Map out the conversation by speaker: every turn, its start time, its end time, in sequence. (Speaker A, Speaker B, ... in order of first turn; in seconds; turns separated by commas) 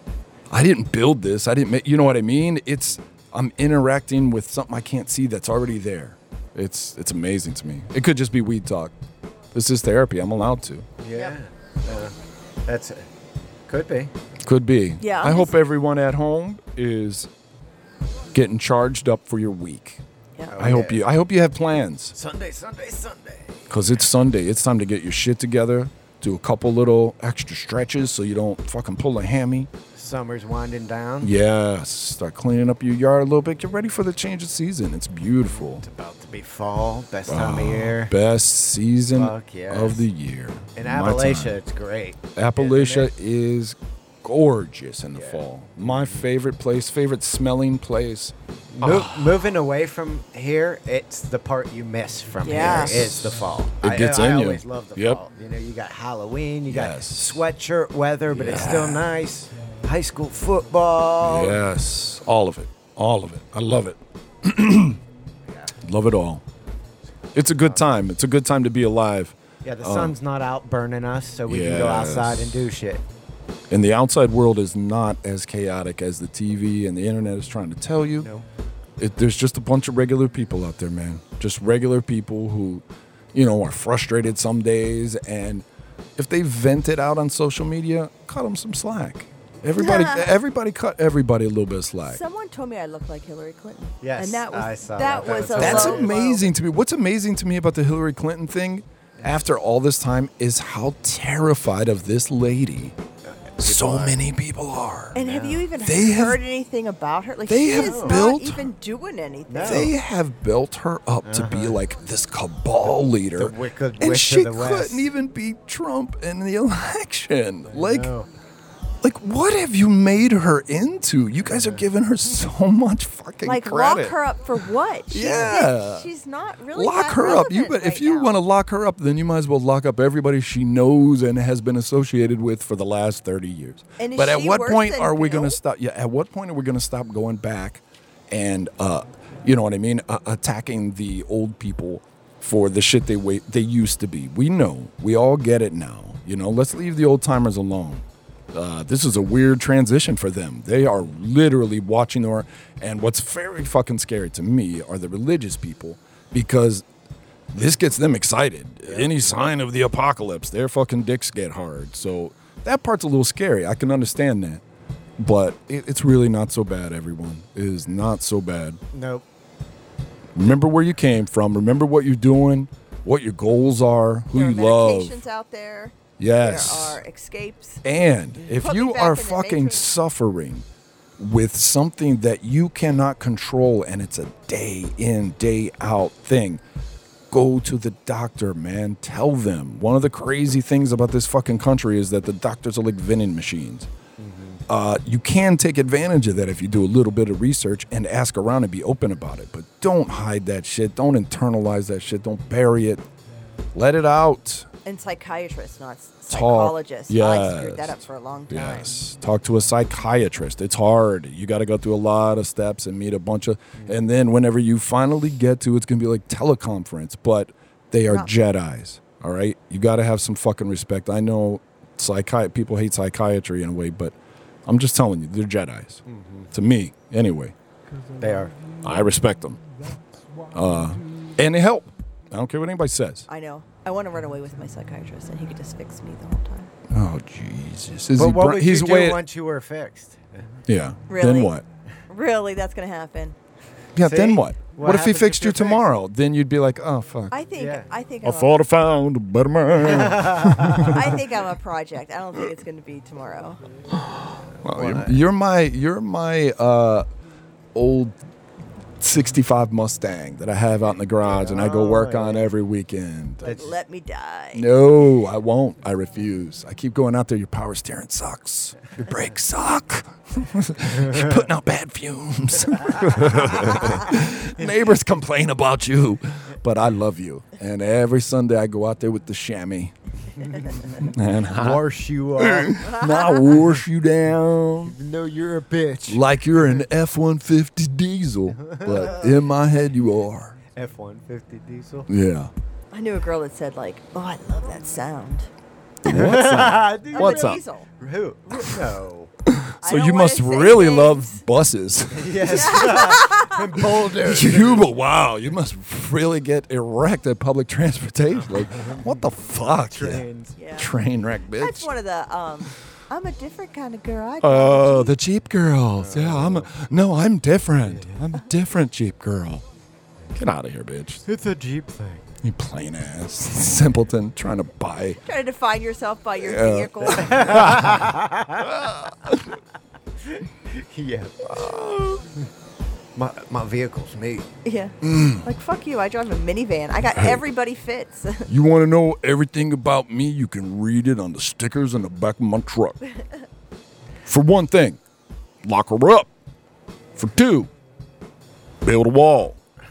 Speaker A: 0.5-8.9, Speaker A: 9.5-10.9, Speaker B: 11.0-12.1, Speaker B: 12.7-13.1, Speaker B: 13.7-14.1, Speaker A: 14.4-17.3, Speaker C: 15.0-15.5, Speaker A: 18.3-20.0, Speaker B: 20.5-21.1, Speaker A: 20.6-22.2, Speaker B: 22.2-23.8, Speaker A: 23.7-29.7, Speaker B: 30.0-31.3, Speaker A: 31.2-35.9, Speaker B: 35.6-38.1, Speaker A: 37.3-41.6, Speaker B: 39.1-40.1, Speaker B: 40.8-43.1, Speaker A: 42.4-49.4, Speaker B: 45.1-46.3, Speaker B: 48.7-61.6, Speaker C: 52.4-53.1, Speaker A: 52.8-53.2, Speaker A: 53.8-55.2, Speaker A: 56.7-57.4, Speaker A: 58.3-59.0, Speaker A: 61.2-65.0, Speaker A: 65.8-66.4, Speaker A: 67.3-70.2, Speaker B: 69.6-73.0, Speaker A: 71.5-72.6, Speaker A: 73.7-78.3, Speaker B: 78.2-78.5, Speaker A: 79.0-85.7, Speaker A: 86.2-92.2, Speaker C: 89.8-90.3, Speaker C: 92.0-96.4, Speaker B: 94.0-96.5, Speaker A: 95.5-103.0, Speaker B: 103.6-104.2, Speaker A: 103.6-105.2, Speaker B: 105.2-105.7, Speaker C: 105.2-109.9, Speaker A: 105.8-106.4, Speaker A: 107.5-108.7, Speaker B: 107.7-108.2, Speaker B: 109.5-109.9, Speaker A: 109.6-118.1, Speaker B: 111.2-111.8, Speaker B: 112.9-115.1, Speaker B: 117.7-118.3, Speaker A: 119.0-124.2, Speaker B: 121.5-121.8, Speaker C: 123.4-128.4, Speaker A: 125.1-126.1, Speaker A: 126.7-156.8, Speaker C: 134.0-135.6, Speaker A: 157.5-164.6, Speaker B: 158.9-159.4, Speaker A: 165.2-168.8, Speaker B: 168.9-169.2, Speaker A: 170.3-175.2, Speaker C: 174.3-177.8, Speaker A: 176.2-177.0, Speaker A: 177.8-180.7, Speaker C: 178.5-179.9, Speaker A: 181.2-186.6, Speaker A: 187.3-193.9, Speaker B: 194.2-194.6, Speaker A: 194.7-203.0, Speaker A: 203.8-204.7, Speaker C: 204.8-208.9, Speaker A: 206.3-224.2, Speaker A: 224.7-227.5, Speaker B: 226.1-226.5, Speaker B: 228.2-228.6, Speaker A: 228.8-229.6, Speaker A: 230.5-233.3, Speaker C: 233.3-236.7, Speaker A: 236.9-239.2, Speaker B: 238.2-240.5, Speaker A: 240.7-241.6, Speaker C: 241.1-241.6, Speaker C: 242.1-243.4, Speaker A: 244.0-247.4, Speaker B: 244.0-245.9, Speaker C: 247.3-248.6, Speaker B: 247.6-247.9, Speaker A: 248.2-251.2, Speaker B: 249.8-251.0, Speaker C: 250.8-253.6, Speaker A: 253.9-257.1, Speaker B: 254.6-255.2, Speaker A: 257.8-258.2, Speaker A: 259.0-263.5, Speaker B: 261.2-262.5, Speaker C: 263.4-264.7, Speaker B: 263.4-263.7, Speaker A: 264.5-279.9, Speaker B: 273.0-273.7, Speaker B: 280.4-282.9, Speaker A: 281.0-281.8, Speaker A: 282.4-285.0, Speaker C: 282.8-283.6, Speaker B: 284.9-286.8, Speaker A: 286.1-290.6, Speaker B: 288.6-289.3, Speaker B: 290.7-292.1, Speaker A: 292.1-292.5, Speaker C: 292.9-295.5, Speaker A: 296.0-297.6, Speaker B: 296.1-299.3, Speaker C: 297.1-297.9, Speaker A: 299.5-303.0, Speaker C: 299.8-301.4, Speaker B: 302.1-304.9, Speaker C: 302.5-303.7, Speaker A: 303.8-311.9, Speaker B: 308.5-310.6, Speaker C: 310.6-310.9, Speaker C: 311.6-315.2, Speaker A: 314.4-319.6, Speaker B: 316.0-316.7, Speaker B: 317.9-318.2, Speaker A: 320.4-321.2, Speaker B: 321.3-322.2, Speaker A: 322.4-325.2, Speaker C: 325.2-327.7, Speaker A: 326.4-329.6, Speaker B: 327.1-328.8, Speaker B: 330.3-331.9, Speaker A: 331.5-332.2, Speaker B: 333.2-334.5, Speaker C: 334.6-338.5, Speaker A: 335.0-335.5, Speaker A: 337.1-337.4, Speaker A: 338.5-343.0, Speaker A: 344.3-345.0, Speaker A: 345.6-346.3, Speaker A: 347.2-347.7, Speaker A: 348.8-349.6